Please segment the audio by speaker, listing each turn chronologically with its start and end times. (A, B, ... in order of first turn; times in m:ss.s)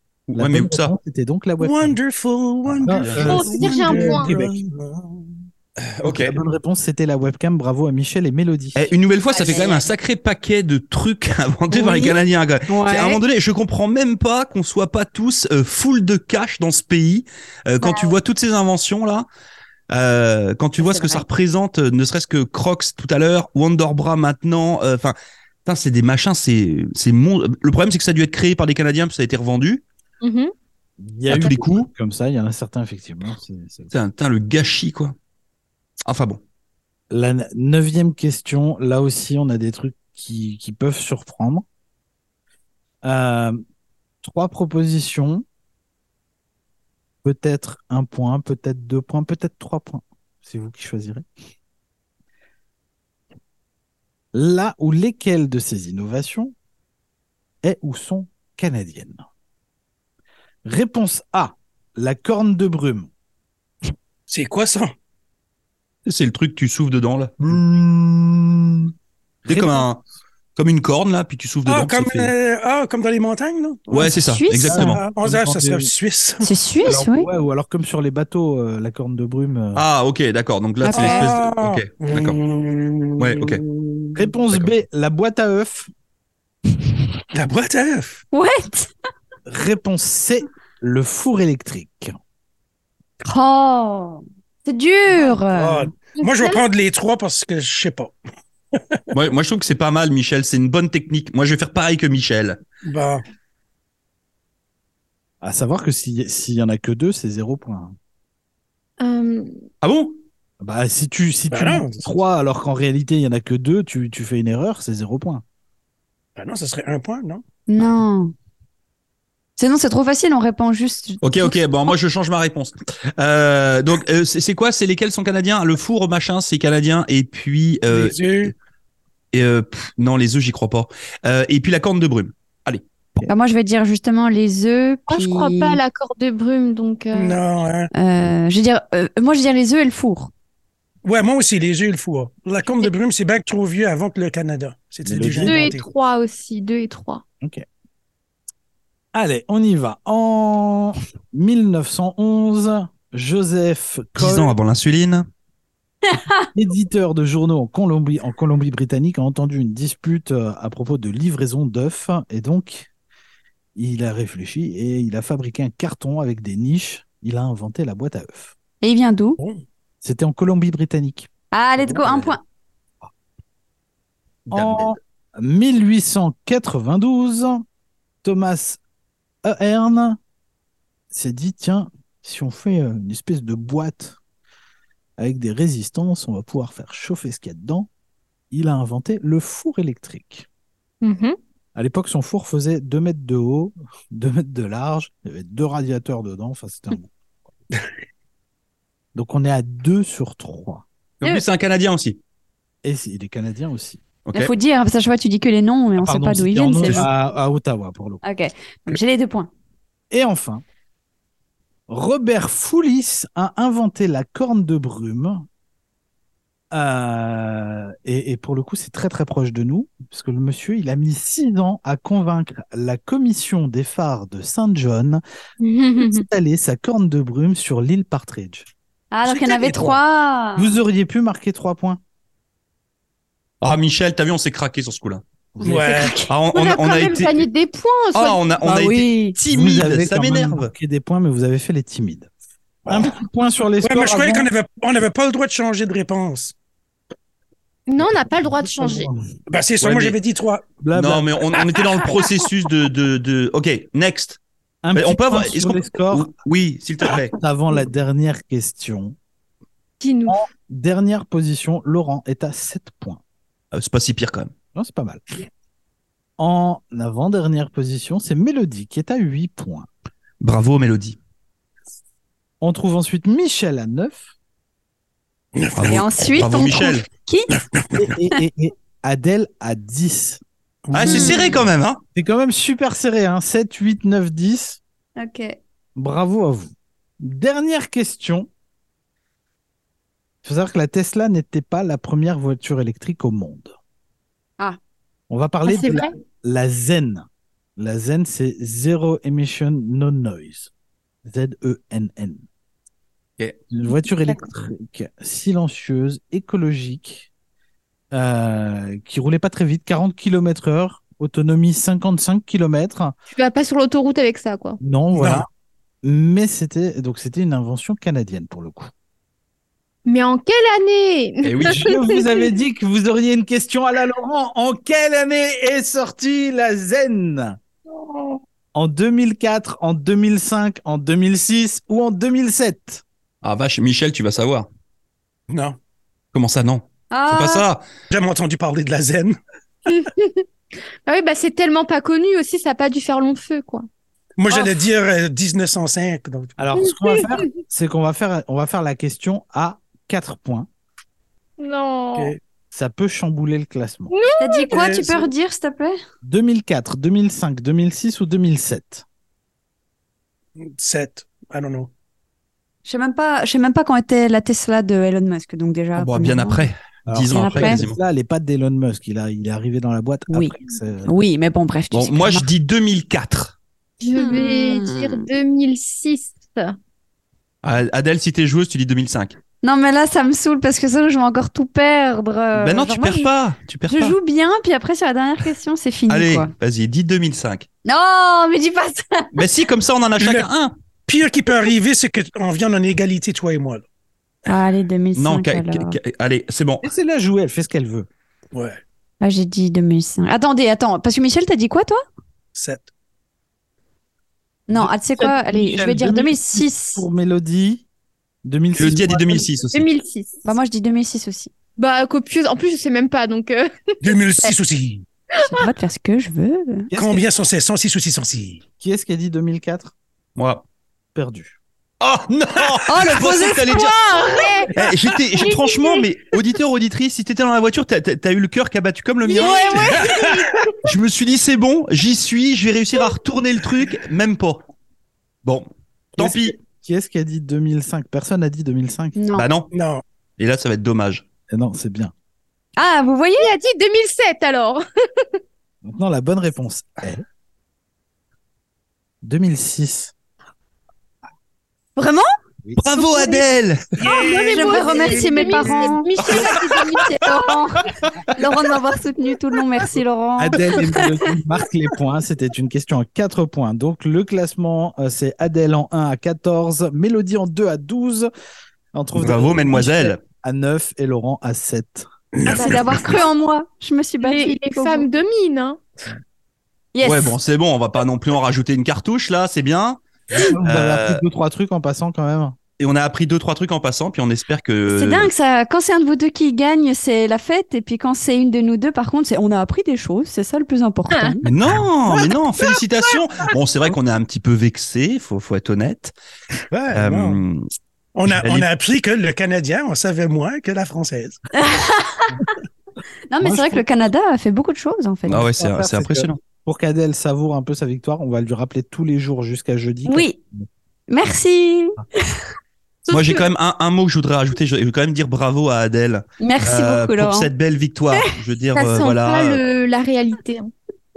0:00.3-0:00.9 A
0:00.4-0:02.0 B
0:01.6-0:05.2 C
0:02.7-0:03.4 A
0:02.8-0:04.6 B
0:03.2-0:04.3 D
0:05.8-0:06.4 A
0:06.0-0:08.9 B
0:08.8-0:19.3 A
0:09.3-0:09.9 E
0:09.4-0:09.7 D
0:11.7-0:13.2 E
0:17.8-0:18.2 E
0:19.9-0:29.8 A
0:20.8-0:21.2 E
0:30.2-0:30.5 D
0:31.0-0:33.9 B
0:31.3-0:31.9 A
0:33.9-0:35.2 A
0:36.1-0:36.4 A
0:37.1-0:41.6 B
0:43.0-0:43.6 B
0:44.2-0:45.4 B
0:47.2-0:51.3 B
0:54.3-0:56.5 B
0:57.6-0:59.2 B
1:00.6-1:03.1 B
1:04.3-1:04.9 C
1:06.1-1:07.6 A
1:07.4-1:08.9 B
1:09.5-1:09.9 B
1:09.5-1:10.0 A
1:10.6-1:12.3 A
1:11.7-1:13.9 C
1:13.9-1:15.0 E
1:13.9-1:15.0 A
1:14.7-1:15.9 B
1:14.7-1:16.5 C
1:16.4-1:17.3 E
1:16.8-1:19.8 B
1:19.8-1:22.4 A
1:20.8-1:21.3 E
1:20.9-1:24.2 C
1:23.2-1:23.6 A
1:24.2-1:25.9 B
1:24.5-1:24.8 A
1:27.3-1:28.2 C
1:28.3-1:28.9 E
1:29.5-1:32.2 B
1:33.2-1:35.9 E
1:35.2-1:38.2 C
1:36.2-1:36.6 D
1:38.7-1:39.1 C
1:39.1-1:42.6 A
1:42.8-1:43.2 C
1:45.4-1:48.0 B
1:49.0-1:49.5 D
1:49.8-1:50.2 A
1:50.6-1:55.4 B
1:51.5-1:52.1 C
1:56.4-1:57.4 C
1:57.7-1:58.3 E
1:59.6-2:01.6 E
2:01.2-2:08.5 A
2:07.9-2:08.5 C
2:09.3-2:12.8 A
2:13.3-2:15.8 E
2:15.1-2:17.4 D
2:17.1-2:17.9 C
2:17.9-2:20.3 E
2:21.0-2:25.8 C
2:25.0-2:25.7 B
2:25.4-2:27.2 D
2:27.4-2:27.7 B
2:29.1-2:34.6 B
2:34.2-2:35.3 A
2:36.1-2:36.5 E
2:36.1-2:42.9 B
2:43.8-2:48.6 B
2:48.8-2:49.4 E
2:49.4-2:49.6 C
2:50.0-2:51.3 B
2:51.5-2:52.4 E
2:51.8-2:52.3 C
2:54.5-2:57.6 B
2:54.5-2:55.0 A
2:58.2-2:58.8 B
2:59.4-3:00.2 B
3:01.1-3:04.2 B
3:05.2-3:07.9 B
3:08.5-3:10.5 B
3:11.0-3:11.4 D
3:11.8-3:17.1 B
3:19.2-3:20.8 B
3:21.2-3:22.2 A
3:22.8-3:24.0 B
3:24.3-3:24.5 A
3:24.4-3:27.1 E
3:26.0-3:28.2 B
3:28.2-3:29.5 E
3:30.1-3:30.6 B
3:31.9-3:35.5 B
3:36.7-3:45.2 B
3:45.6-3:46.3 D
3:46.0-3:48.7 B
3:49.1-3:50.8 E
3:49.2-3:50.0 C
3:50.6-3:52.0 B
3:53.6-3:57.4 A
3:55.6-3:56.2 C
3:55.6-3:56.3 E
3:56.5-3:58.4 D
3:58.1-4:00.7 A
3:58.6-3:59.4 E
3:59.5-4:02.3 B
4:02.9-4:04.5 B
4:02.9-4:03.2 C
4:03.8-4:06.6 C
4:07.9-4:09.1 D
4:08.0-4:09.3 B
4:09.5-4:10.7 C
4:09.8-4:10.2 A
4:10.8-4:11.3 B
4:10.9-4:14.4 A
4:14.8-4:16.3 B
4:15.0-4:17.4 A
4:17.4-4:19.2 B
4:20.0-4:20.5 D
4:20.3-4:23.2 B
4:23.7-4:24.5 A
4:24.8-4:25.2 B
4:26.4-4:29.9 B
4:30.4-4:31.2 A
4:32.6-4:34.2 B
4:35.6-4:36.1 C
4:35.8-4:37.1 A
4:35.8-4:37.5 E
4:37.6-4:38.1 C
4:38.0-4:40.4 B
4:40.9-4:41.6 C
4:40.9-4:42.0 A
4:41.1-4:41.5 E
4:42.2-4:44.8 B
4:45.2-4:45.6 E
4:46.0-4:48.5 B
4:50.4-4:53.8 B
4:55.3-4:57.3 B
4:55.7-4:56.1 D
4:57.8-5:00.7 B
5:01.2-5:02.4 B
5:03.7-5:07.3 B
5:03.9-5:04.5 D
5:08.1-5:13.2 B
5:13.3-5:14.8 D
5:14.8-5:15.5 B
5:15.1-5:15.5 C
5:16.0-5:18.9 B
5:20.1-5:22.5 D
5:21.4-5:21.9 A
5:21.6-5:27.6 B
5:28.7-5:33.0 B
5:33.4-5:34.7 A
5:35.5-5:35.8 C
5:36.3-5:37.8 A
5:37.1-5:37.7 E
5:38.1-5:39.4 C
5:39.9-5:40.4 D
5:41.1-5:43.9 D
5:44.4-5:46.6 C
5:44.5-5:44.8 D
5:46.6-5:50.7 B
5:46.8-5:47.5 D
5:51.6-5:52.4 D
5:52.2-5:52.4 C
5:52.7-5:54.1 B
5:54.1-5:54.7 D
5:54.4-5:56.0 E
5:54.7-5:55.2 C
5:56.2-5:59.0 B
6:00.6-6:01.9 C
6:02.8-6:06.7 E
6:06.0-6:08.0 A
6:07.1-6:11.1 B
6:07.3-6:07.8 E
6:10.3-6:12.5 E
6:11.9-6:13.6 A
6:14.0-6:16.8 D
6:14.2-6:15.3 E
6:17.6-6:19.4 A
6:19.6-6:23.3 E
6:22.6-6:24.2 A
6:23.9-6:26.5 E
6:26.1-6:27.7 A
6:27.8-6:29.4 E
6:29.3-6:30.7 A
6:30.2-6:30.5 C
6:31.1-6:33.8 C
6:34.5-6:36.0 E
6:35.2-6:36.9 A
6:36.8-6:38.1 B
6:38.5-6:38.8 C
6:39.2-6:42.0 E
6:42.5-6:42.9 C
6:44.7-6:47.0 E
6:44.7-6:47.8 B
6:48.4-6:49.5 B
6:48.7-6:49.9 A
6:49.7-6:50.4 D
6:50.4-6:51.5 E
6:51.8-6:54.5 D
6:54.0-6:55.0 C
6:55.4-6:56.9 E
6:56.9-6:57.3 B
6:56.9-6:58.6 C
6:58.8-6:59.9 B
7:00.4-7:00.6 A
7:01.1-7:01.6 B
7:02.0-7:04.0 A
7:02.9-7:04.6 E
7:03.8-7:04.8 D
7:04.8-7:09.9 A
7:05.4-7:06.1 D
7:09.2-7:10.8 D
7:09.4-7:10.2 E
7:09.7-7:10.6 C
7:10.8-7:14.6 A
7:15.4-7:16.6 A
7:16.2-7:19.2 B
7:19.2-7:19.5 E
7:19.4-7:19.7 A
7:19.7-7:20.0 C
7:20.4-7:21.2 A
7:21.5-7:22.1 B
7:22.8-7:23.5 E
7:23.4-7:25.3 D
7:25.8-7:27.2 B
7:29.2-7:30.1 B
7:32.0-7:32.3 E
7:32.8-7:33.9 A
7:33.0-7:33.4 D
7:34.0-7:35.9 C
7:34.0-7:37.4 D
7:34.3-7:41.3 E
7:36.2-7:36.6 A
7:40.4-7:48.3 B
7:48.9-7:52.1 B
7:49.2-7:50.2 A
7:52.3-7:53.1 C
7:52.5-7:55.1 E
7:52.5-7:53.0 D
7:54.2-7:55.8 D
7:56.9-7:57.4 E
7:57.0-8:00.0 A
8:00.4-8:02.6 B
8:00.6-8:01.2 A
8:02.8-8:05.3 A
8:04.9-8:11.5 E
8:11.4-8:16.2 A
8:16.7-8:17.4 C
8:16.9-8:17.7 A
8:18.2-8:21.4 C
8:18.3-8:18.7 A
8:21.6-8:22.5 E
8:23.3-8:25.5 E
8:23.4-8:23.8 B
8:25.3-8:26.4 A
8:25.3-8:30.7 B
8:30.1-8:30.4 E
8:31.1-8:32.4 E
8:33.1-8:33.5 D
8:33.1-8:39.6 A
8:36.4-8:37.5 E
8:38.8-8:40.7 D